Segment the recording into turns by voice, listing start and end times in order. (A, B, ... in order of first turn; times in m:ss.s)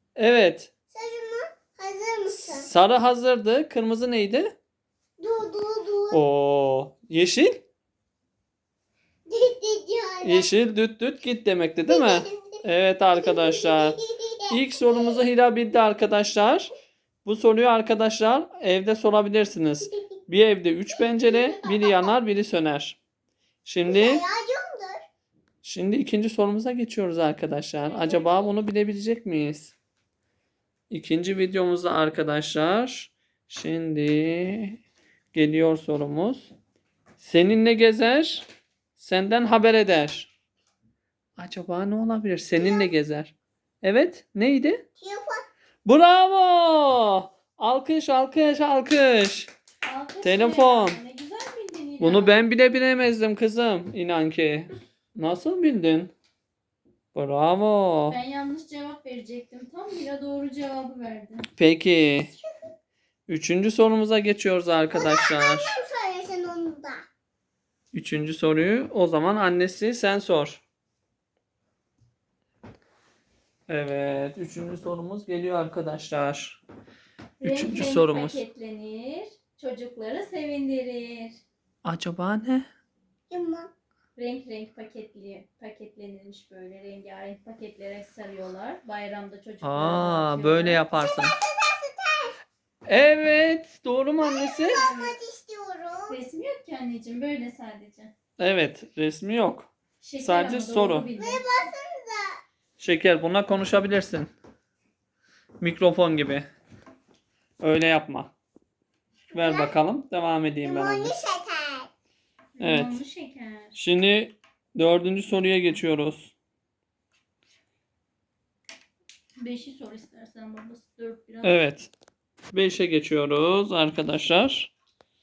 0:00.2-0:00.7 A
0:00.9-0:02.7 B
0:02.3-0:04.6 A
0:05.2-0:06.2 B
0:06.1-0:07.6 A
0:09.2-0:10.5 B
0:10.2-0:14.0 A
0:11.9-0:15.2 B
0:14.5-0:16.7 A
0:17.2-0:23.0 A
0:20.9-0:22.1 B
0:23.6-0:24.2 A
0:23.8-0:25.0 B
0:25.6-0:29.7 A
0:27.9-0:28.4 B
0:30.9-0:34.8 A
0:35.3-0:36.5 A
0:37.2-0:38.4 A
0:39.0-0:40.3 A
0:41.4-0:44.8 A
0:42.6-0:42.9 B
0:45.0-0:45.4 B
0:45.8-0:49.5 A
0:49.8-0:52.4 C
0:50.2-0:51.0 A
0:52.0-0:56.1 A
0:57.1-0:58.2 A
0:58.1-1:01.4 C
1:01.6-1:02.3 A
1:03.3-1:05.7 A
1:04.9-1:07.0 B
1:07.9-1:10.6 A
1:13.7-1:16.6 A
1:17.4-1:21.4 C
1:17.4-1:18.4 A
1:21.8-1:22.7 A
1:23.3-1:23.7 B
1:24.2-1:30.8 C
1:29.6-1:31.4 A
1:31.0-1:32.3 B
1:32.9-1:34.8 A
1:34.2-1:36.2 B
1:34.7-1:35.1 C
1:36.1-1:38.1 C
1:38.4-1:41.1 A
1:40.0-1:41.4 C
1:41.2-1:42.4 B
1:42.8-1:44.3 A
1:45.6-1:46.4 A
1:47.6-1:48.3 A
1:49.3-1:49.7 B
1:49.3-1:51.2 A
1:50.6-1:51.9 B
1:52.6-1:53.8 C
1:52.6-1:53.0 A
1:53.7-1:56.3 A
1:59.4-2:01.6 C
2:01.4-2:01.9 A
2:02.5-2:04.7 A